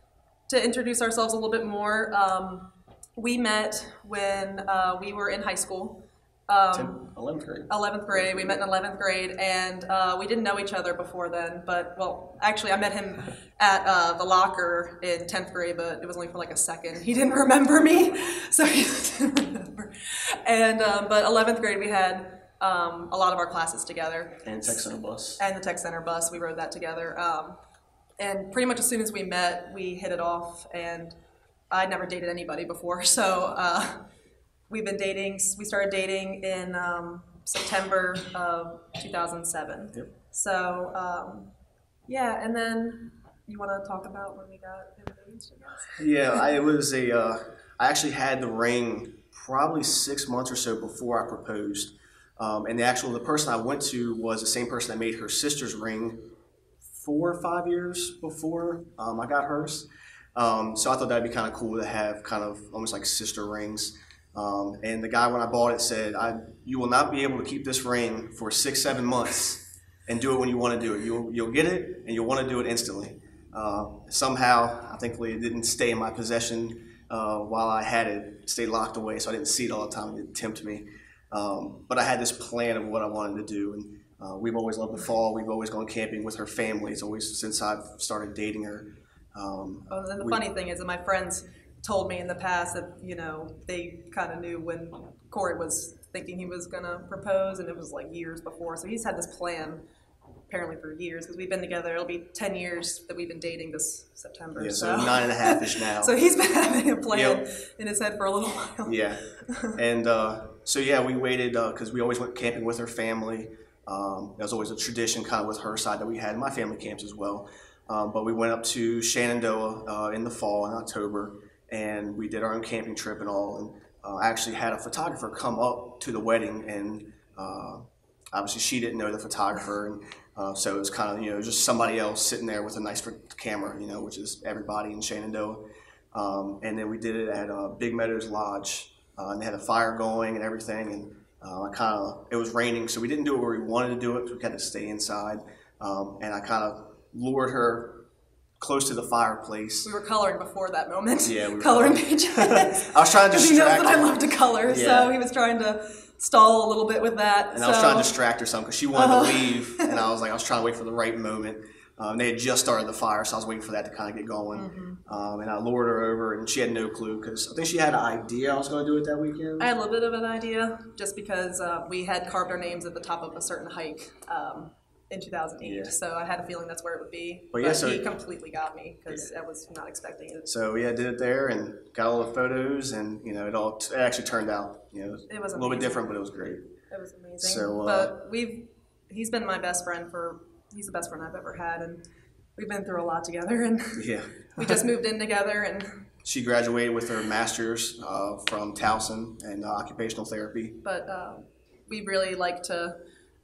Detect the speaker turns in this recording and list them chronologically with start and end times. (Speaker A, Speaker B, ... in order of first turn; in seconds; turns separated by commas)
Speaker A: 0.5-7.1, Speaker B: 6.7-8.6, Speaker A: 7.7-24.8, Speaker B: 24.4-25.4, Speaker A: 25.4-27.6, Speaker A: 28.2-31.2, Speaker A: 31.7-34.1, Speaker A: 34.7-41.5, Speaker A: 42.1-46.0, Speaker B: 46.0-56.2, Speaker B: 56.9-90.4, Speaker A: 89.9-99.8, Speaker A: 100.5-109.8, Speaker B: 104.6-106.2, Speaker B: 107.1-107.4, Speaker B: 108.8-148.0, Speaker B: 148.6-149.9, Speaker A: 149.8-158.1, Speaker B: 151.2-155.1, Speaker B: 157.5-169.7, Speaker A: 158.9-160.0, Speaker A: 164.5-165.0, Speaker A: 169.6-180.5, Speaker B: 175.6-175.9, Speaker B: 177.5-178.1, Speaker B: 180.5-186.7, Speaker A: 185.3-186.1, Speaker A: 186.9-192.0, Speaker B: 187.4-188.1, Speaker A: 192.6-196.0, Speaker B: 193.9-194.8, Speaker B: 196.2-200.8, Speaker A: 200.8-203.0